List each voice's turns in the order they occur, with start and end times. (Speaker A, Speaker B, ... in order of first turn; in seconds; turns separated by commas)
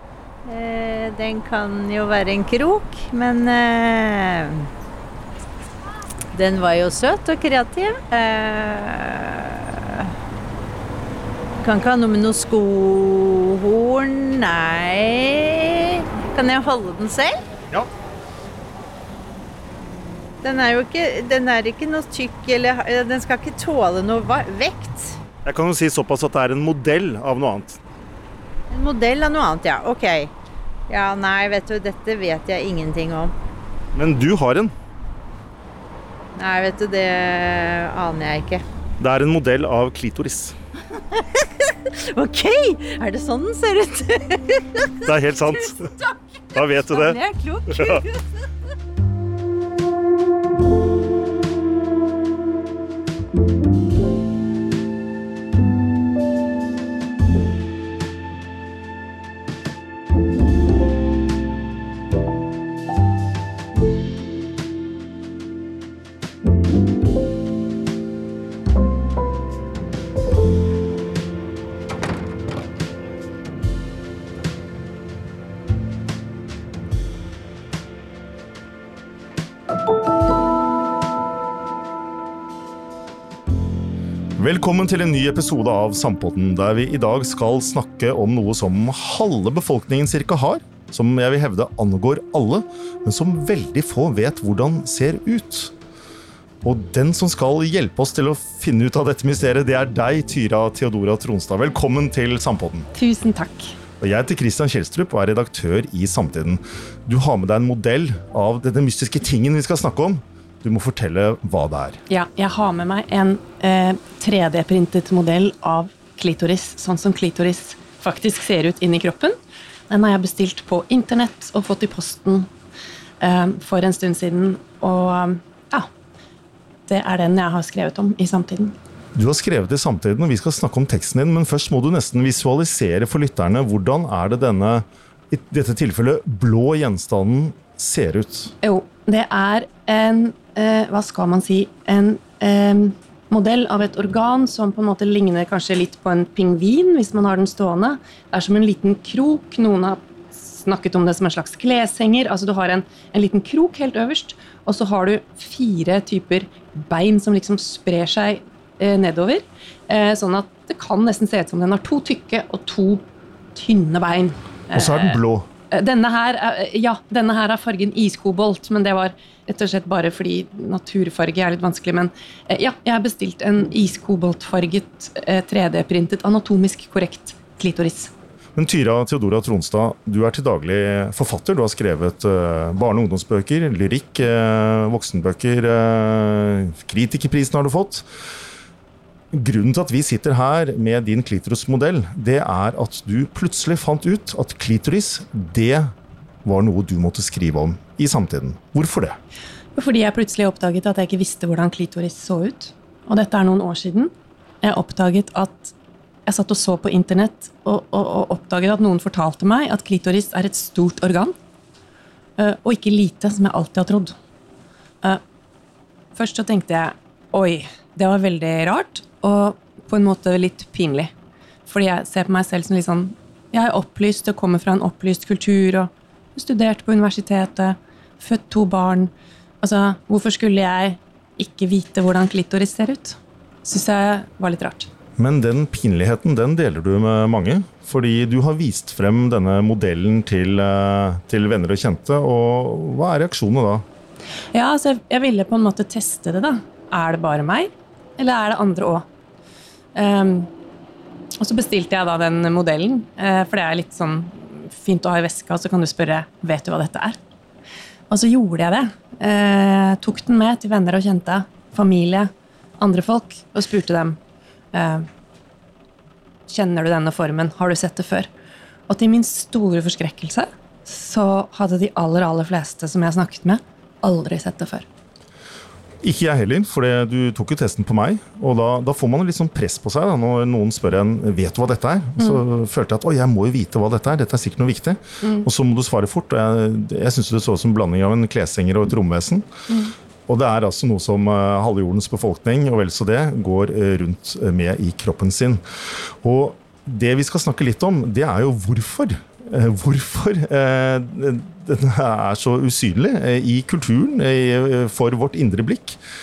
Speaker A: 0.5-4.7, Speaker A: 6.3-10.1, Speaker A: 11.6-17.4, Speaker A: 20.4-25.2, Speaker B: 25.4-27.8, Speaker A: 28.7-30.3, Speaker A: 30.9-33.3, Speaker B: 33.9-34.7, Speaker A: 36.4-38.6, Speaker B: 39.0-40.6, Speaker A: 42.1-44.8, Speaker B: 45.0-45.9, Speaker A: 45.6-46.1, Speaker B: 46.5-47.2, Speaker A: 46.9-48.1, Speaker B: 47.7-48.0, Speaker B: 84.4-95.7, Speaker B: 96.6-102.9, Speaker C: 102.9-103.8, Speaker B: 104.0-112.0, Speaker C: 112.1-119.4, Speaker C: 119.9-122.5, Speaker C: 123.2-125.9, Speaker C: 126.9-128.8, Speaker B: 129.2-138.5, Speaker C: 138.6-163.0, Speaker C: 163.6-178.1, Speaker B: 164.7-165.5, Speaker B: 178.6-188.1, Speaker B: 189.3-195.9, Speaker B: 196.4-199.2, Speaker C: 199.8-205.7, Speaker C: 206.3-211.4, Speaker C: 212.4-214.2, Speaker C: 216.2-221.1, Speaker C: 221.7-234.9, Speaker B: 235.2-243.8, Speaker C: 244.5-249.1, Speaker C: 249.9-250.5, Speaker C: 251.4-257.2, Speaker C: 258.1-264.2, Speaker C: 264.7-265.1, Speaker C: 266.5-268.3, Speaker C: 268.9-274.9, Speaker B: 276.0-289.4, Speaker B: 290.3-306.0